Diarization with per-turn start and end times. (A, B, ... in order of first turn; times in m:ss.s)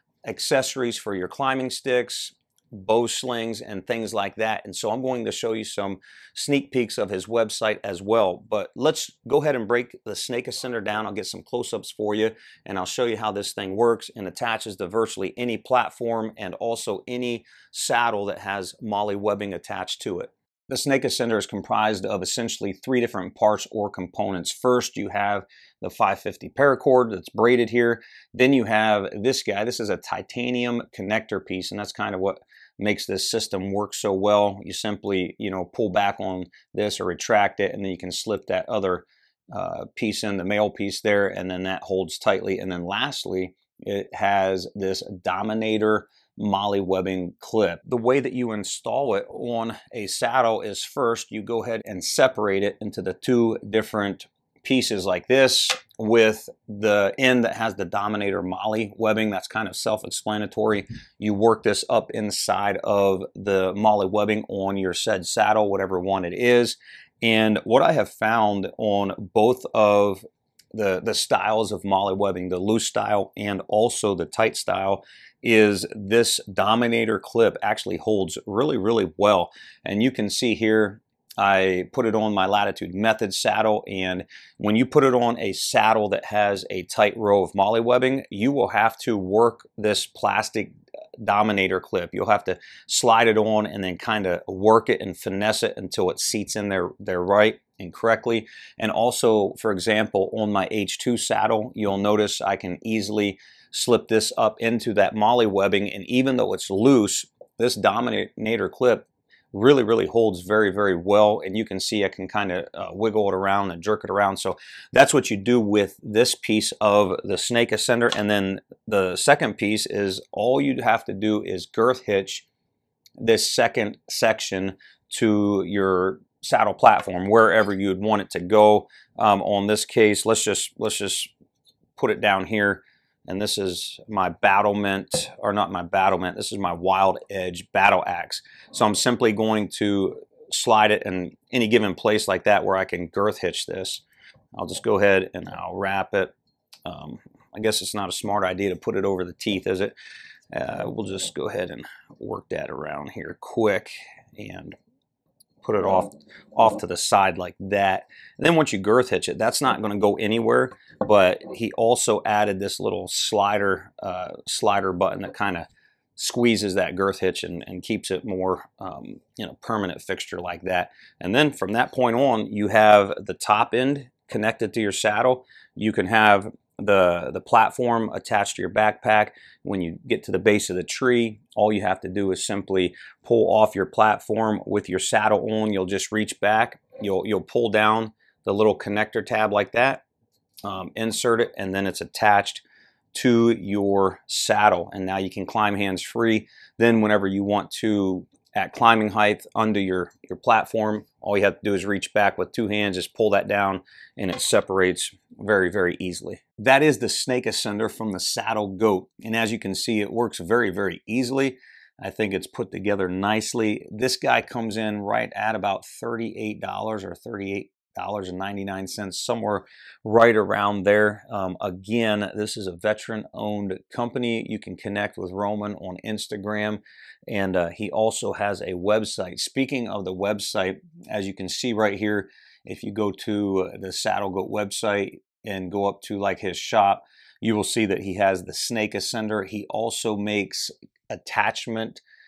0:00.2-2:02.5 A
2:03.2-2:11.3 A
2:12.0-2:26.3 A
2:26.8-2:29.9 A
2:30.5-2:34.8 A
2:35.6-3:10.0 A
3:10.6-4:02.0 A